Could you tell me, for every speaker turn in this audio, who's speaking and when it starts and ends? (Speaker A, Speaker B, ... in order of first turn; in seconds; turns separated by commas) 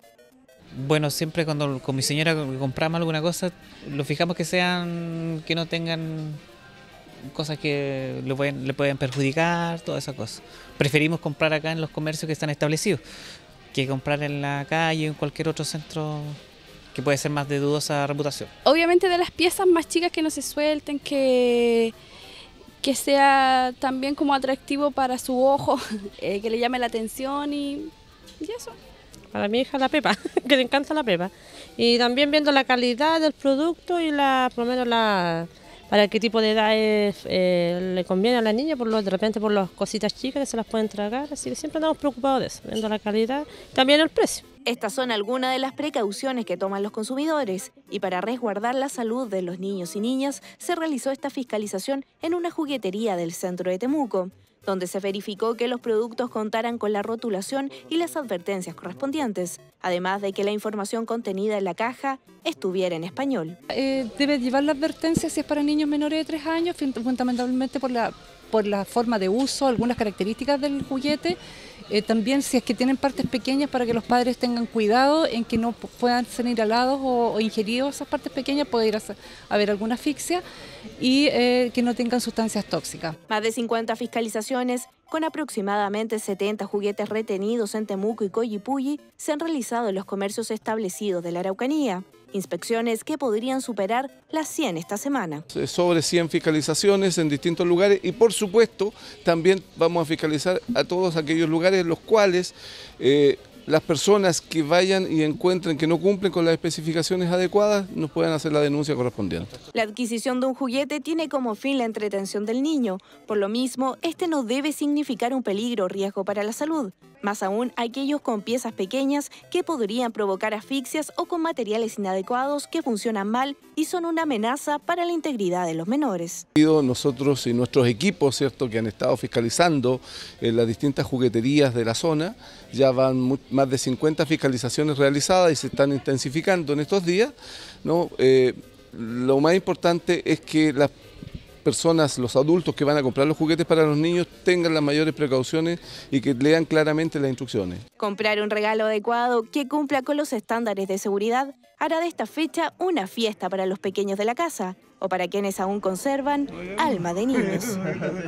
Speaker A: 0.7-6.4, Speaker A: 7.3-13.0, Speaker A: 13.7-16.4, Speaker A: 16.9-18.5, Speaker B: 18.6-21.9, Speaker B: 22.8-28.8, Speaker C: 29.3-44.4, Speaker D: 44.7-63.6, Speaker E: 63.7-71.4, Speaker E: 71.9-80.4, Speaker E: 81.0-83.2, Speaker D: 83.3-95.4, Speaker F: 95.5-109.5, Speaker D: 109.7-126.5, Speaker F: 126.6-140.9, Speaker F: 141.7-147.8, Speaker D: 148.0-157.8